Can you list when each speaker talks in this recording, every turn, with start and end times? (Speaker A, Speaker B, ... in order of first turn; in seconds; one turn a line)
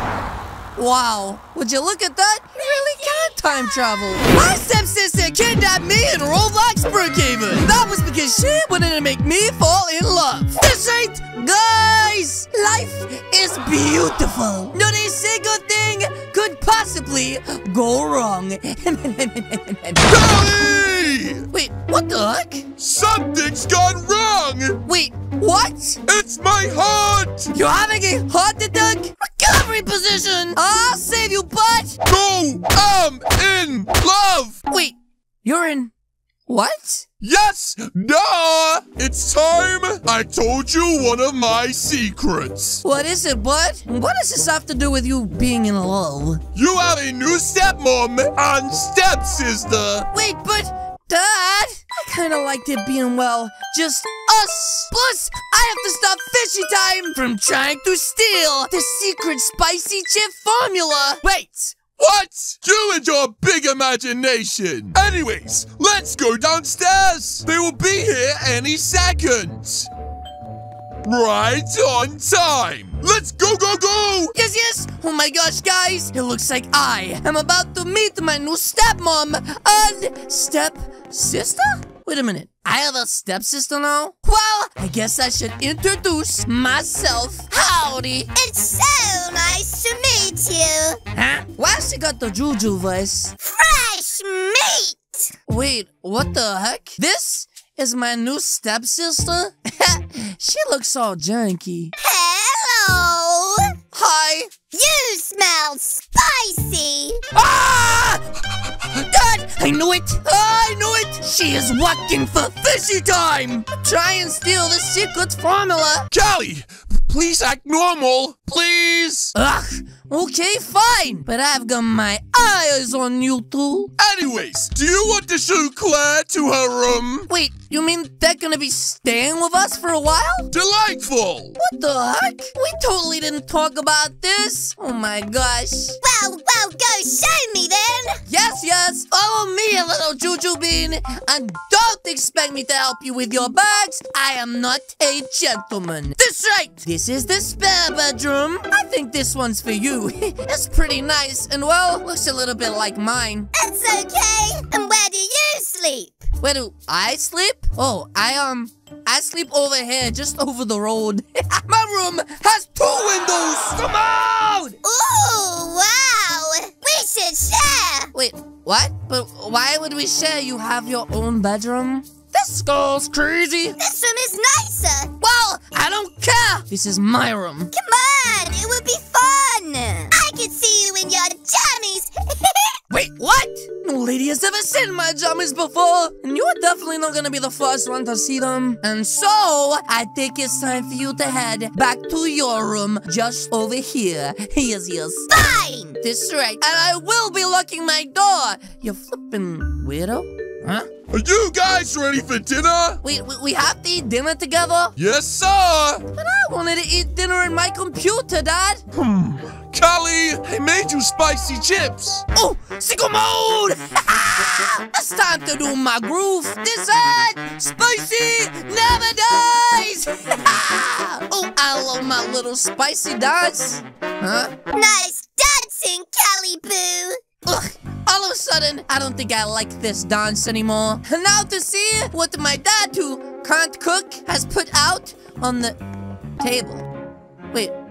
Speaker A: 0.8-20.2
Speaker B: 20.0-21.4
Speaker A: 21.5-22.7
Speaker B: 22.8-24.8
Speaker A: 24.8-26.0
Speaker B: 26.1-27.5
Speaker A: 27.5-32.0
Speaker B: 32.0-34.6
Speaker A: 34.7-35.9
Speaker A: 36.5-37.0
Speaker B: 37.2-42.8
Speaker A: 42.8-46.4
Speaker B: 46.5-50.1
Speaker A: 50.1-61.8
Speaker B: 62.0-69.9
Speaker B: 71.0-74.3
Speaker A: 74.3-88.3
Speaker C: 88.3-91.0
Speaker A: 91.1-93.3
Speaker C: 93.4-95.3
Speaker A: 95.5-101.9
Speaker C: 102.0-103.7
Speaker A: 103.9-104.5
Speaker C: 104.7-107.2
Speaker A: 107.3-108.2
Speaker A: 108.9-116.1
Speaker B: 116.1-119.3
Speaker A: 119.3-123.9
Speaker B: 124.0-127.3
Speaker A: 127.3-130.5
Speaker B: 130.5-131.6
Speaker A: 131.6-136.0
Speaker C: 136.0-138.2
Speaker A: 138.3-153.5
Speaker C: 153.5-156.3
Speaker A: 156.4-164.8
Speaker C: 164.8-168.1
Speaker A: 168.1-173.8
Speaker C: 173.8-175.1
Speaker A: 175.2-177.7
Speaker C: 177.7-182.7
Speaker A: 182.9-195.3
Speaker C: 195.3-196.0
Speaker A: 196.0-200.9
Speaker B: 201.1-203.0
Speaker A: 203.0-204.9
Speaker B: 205.0-206.0
Speaker A: 206.1-208.8
Speaker B: 208.9-212.2
Speaker A: 212.3-224.5
Speaker C: 224.7-227.2
Speaker A: 227.4-235.8
Speaker A: 236.4-236.9